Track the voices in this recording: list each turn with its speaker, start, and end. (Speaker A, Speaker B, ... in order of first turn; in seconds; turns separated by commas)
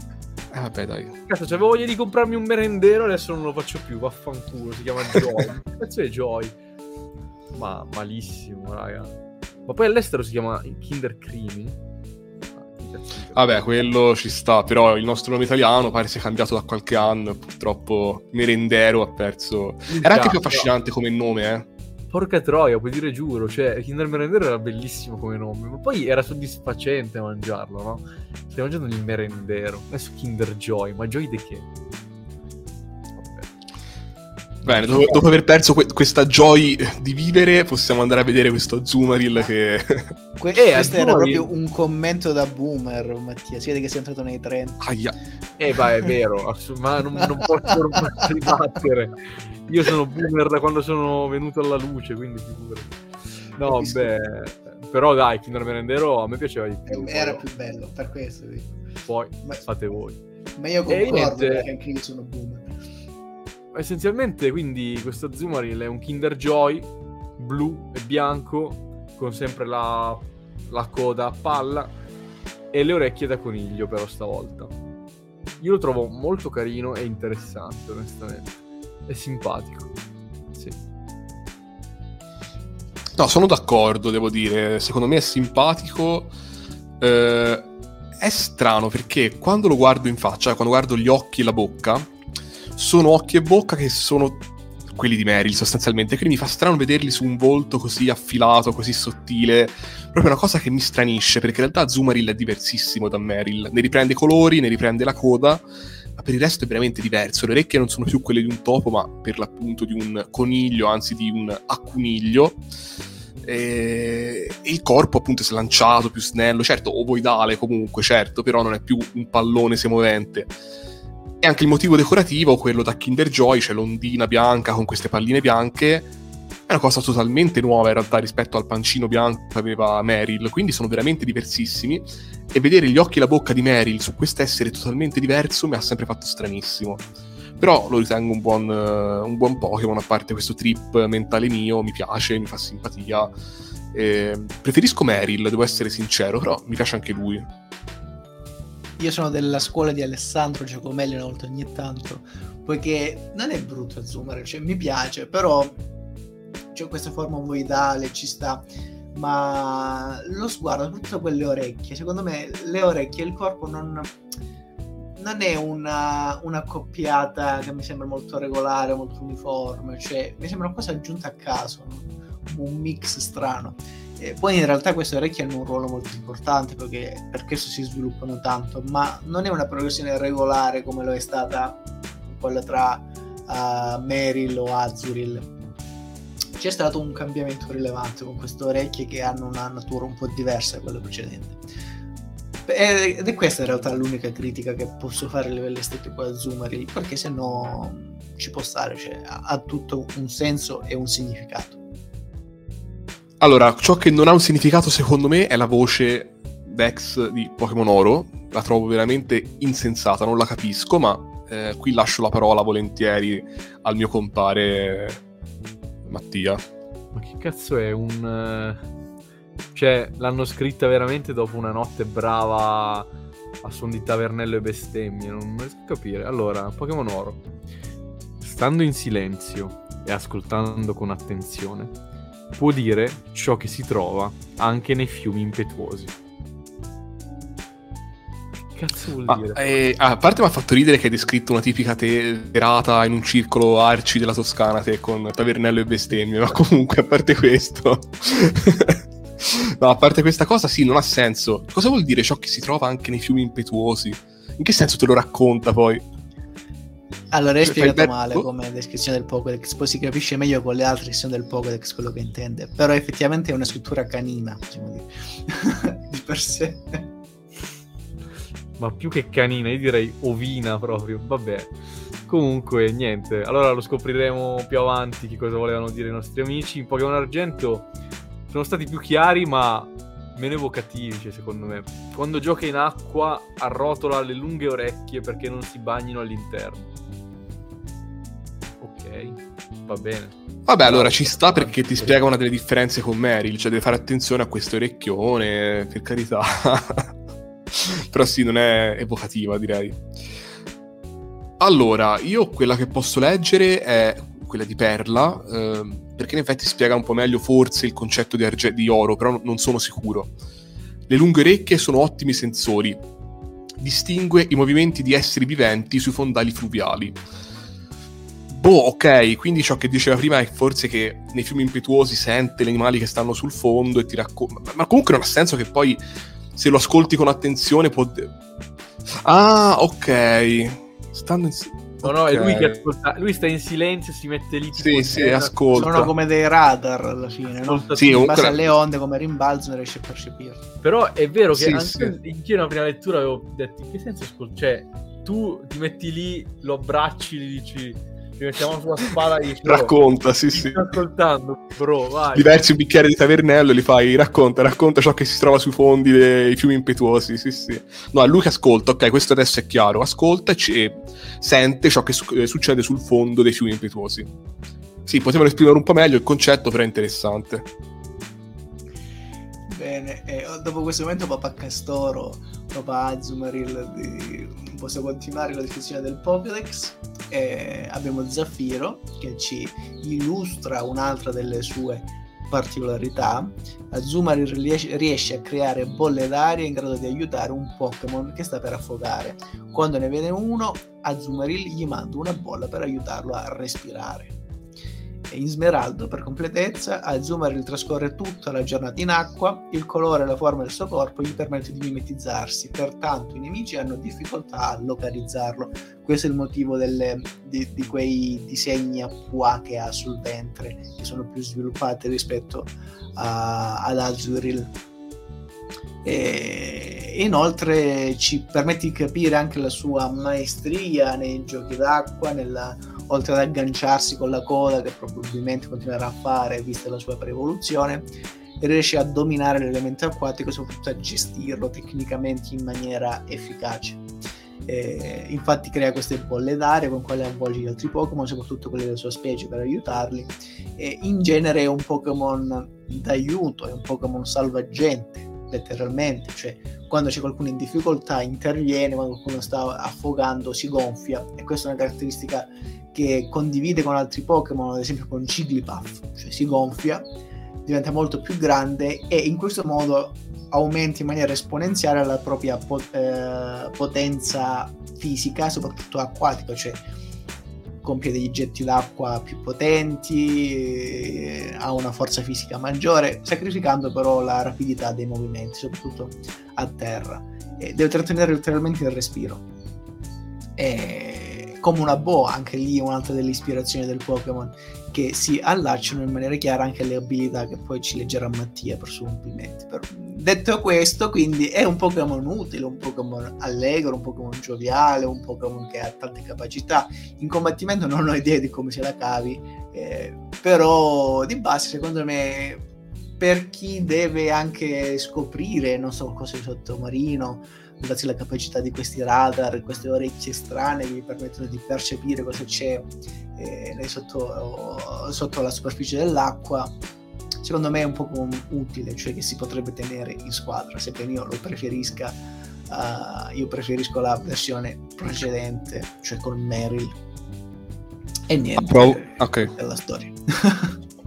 Speaker A: 0.5-1.1, Speaker B: 1.3-6.5, Speaker B: 7.5-11.8, Speaker B: 12.6-13.6, Speaker A: 13.3-21.7, Speaker B: 19.9-20.7, Speaker B: 22.1-31.7, Speaker B: 33.2-33.5, Speaker B: 34.6-35.2, Speaker A: 34.7-40.1, Speaker C: 40.4-44.8, Speaker B: 40.5-41.5, Speaker A: 44.8-45.1, Speaker B: 45.6-52.9, Speaker C: 48.0-48.2, Speaker B: 53.6-57.4, Speaker C: 53.6-54.1, Speaker C: 56.9-58.8, Speaker B: 59.1-60.2, Speaker C: 60.6-62.7, Speaker B: 60.9-61.7, Speaker B: 63.7-71.9, Speaker B: 72.7-74.7, Speaker B: 75.6-78.5, Speaker B: 79.1-79.9, Speaker A: 83.2-86.3, Speaker A: 87.0-92.1, Speaker A: 92.8-105.6, Speaker A: 106.2-112.6, Speaker A: 113.4-120.5, Speaker A: 121.4-126.1, Speaker A: 126.7-137.1, Speaker A: 137.6-143.3, Speaker A: 143.9-147.5, Speaker C: 149.0-155.8, Speaker C: 156.7-164.1, Speaker C: 165.2-185.5, Speaker C: 186.6-191.6, Speaker C: 192.7-201.8, Speaker A: 203.4-215.2, Speaker A: 216.1-216.6, Speaker B: 217.1-218.8, Speaker B: 219.7-223.1, Speaker B: 223.6-227.4, Speaker B: 228.4-231.9, Speaker B: 232.6-236.1, Speaker B: 238.7-239.6, Speaker A: 239.3-256.0, Speaker C: 257.3-267.1, Speaker A: 257.6-258.4, Speaker B: 268.8-271.8, Speaker B: 272.3-277.9, Speaker B: 278.5-286.9, Speaker B: 288.8-292.2, Speaker A: 290.7-297.1, Speaker A: 297.7-300.0, Speaker A: 301.6-310.3, Speaker A: 311.1-313.0, Speaker A: 313.8-317.2, Speaker A: 318.5-326.0, Speaker A: 326.6-328.3, Speaker A: 329.2-332.8, Speaker B: 332.0-336.1, Speaker A: 334.8-336.1, Speaker C: 335.7-340.6, Speaker B: 337.5-338.3, Speaker A: 337.9-338.6, Speaker B: 340.8-352.6, Speaker A: 341.5-342.2, Speaker A: 349.6-351.0, Speaker A: 352.3-364.3, Speaker A: 365.1-367.7, Speaker C: 369.7-394.4, Speaker C: 395.3-414.7, Speaker C: 416.0-434.0, Speaker C: 434.7-457.1, Speaker C: 457.6-466.8, Speaker C: 467.8-479.5, Speaker C: 480.6-502.6, Speaker C: 503.2-516.7, Speaker C: 517.4-527.0, Speaker C: 528.3-530.8, Speaker A: 528.6-529.5